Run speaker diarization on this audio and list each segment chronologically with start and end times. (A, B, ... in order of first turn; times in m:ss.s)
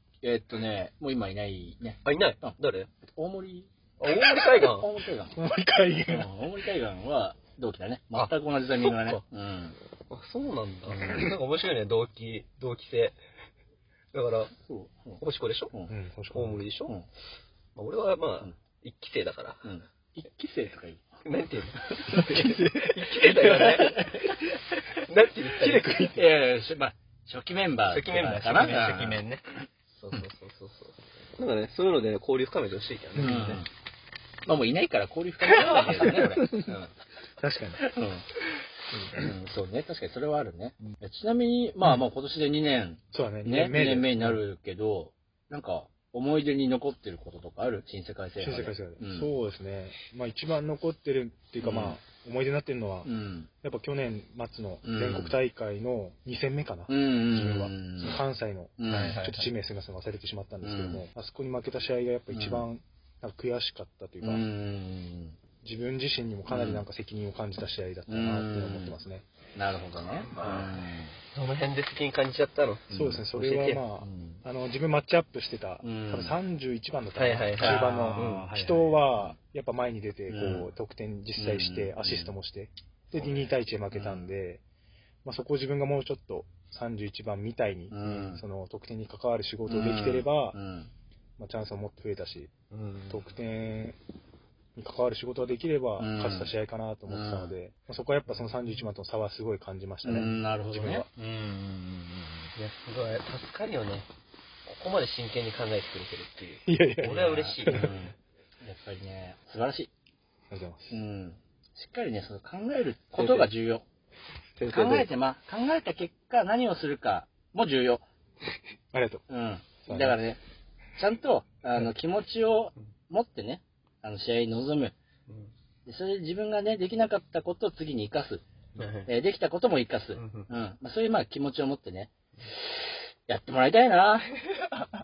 0:00.2-0:02.6 A
0:02.0-0:02.9 B
0:03.1-0:05.4 A
0:04.0-0:04.9 B
0:05.4-0:06.3 C
0:06.1-0:09.8 A
0:08.1-0:09.2 B
0:10.1-0:13.2 B
0:10.9-0:11.3 A
0:14.1-0:14.5 B
0:14.6-0:15.2 A
0:15.2-0:15.7 B
0:15.9-0:16.6 C
0:16.3-0:16.9 B
0:17.8-0:19.6 B
0:19.6-0:21.0 A
0:21.2-0:24.3 B
0:21.9-0:22.6 A
0:22.1-0:23.8 C
0:23.4-0:24.5 A
0:25.0-0:26.1 B
0:25.6-0:26.2 C
0:26.1-0:29.2 A
0:27.8-0:33.6 B
0:33.1-0:33.6 C
0:33.2-0:33.7 A
0:34.4-0:36.9 A
0:35.5-0:36.4 B
0:36.0-0:36.7 C
0:37.4-0:37.8 C
0:37.8-0:38.2 A
0:38.9-0:39.3 C
0:39.1-0:49.3 A
0:43.1-0:44.4 C
0:48.4-0:53.1 C
0:51.6-0:52.0 A
0:53.0-0:53.5 A
0:53.6-1:04.4 C
0:54.8-0:55.4 A
0:56.9-0:58.2 A
0:58.8-0:59.2 A
0:58.9-0:59.5 B
1:00.6-1:01.0 A
1:02.3-1:02.6 A
1:04.2-1:05.4 A
1:05.6-1:09.2 C
1:06.5-1:06.8 A
1:08.1-1:09.0 A
1:09.6-1:11.2 A
1:10.3-1:10.7 B
1:11.3-1:13.8 B
1:12.9-1:13.2 A
1:12.9-1:24.6 C
1:14.0-1:14.4 A
1:15.8-1:16.3 A
1:17.2-1:18.4 B
1:17.6-1:19.4 A
1:20.3-1:20.7 A
1:21.4-1:22.3 A
1:23.2-1:24.3 A
1:25.2-1:30.6 C
1:27.9-1:28.4 A
1:29.6-1:30.9 A
1:31.4-1:32.5 C
1:32.7-1:33.2 B
1:33.1-1:34.0 C
1:34.8-1:41.1 C
1:36.0-1:36.5 A
1:37.1-1:37.5 A
1:40.0-1:42.5 A
1:42.6-1:44.1 B
1:44.7-1:47.9 B
1:46.6-1:47.9 C
1:47.0-1:49.9 A
1:50.5-1:50.9 C
1:50.9-1:53.8 A
1:53.2-1:53.5 B
1:54.6-1:55.1 B
1:54.6-1:58.0 A
1:58.9-1:59.2 C
1:59.3-2:00.4 A
1:59.8-2:00.2 C
2:01.0-2:04.9 A
2:05.8-2:08.4 A
2:08.8-2:09.1 B
2:09.0-2:14.3 A
2:10.2-2:10.5 B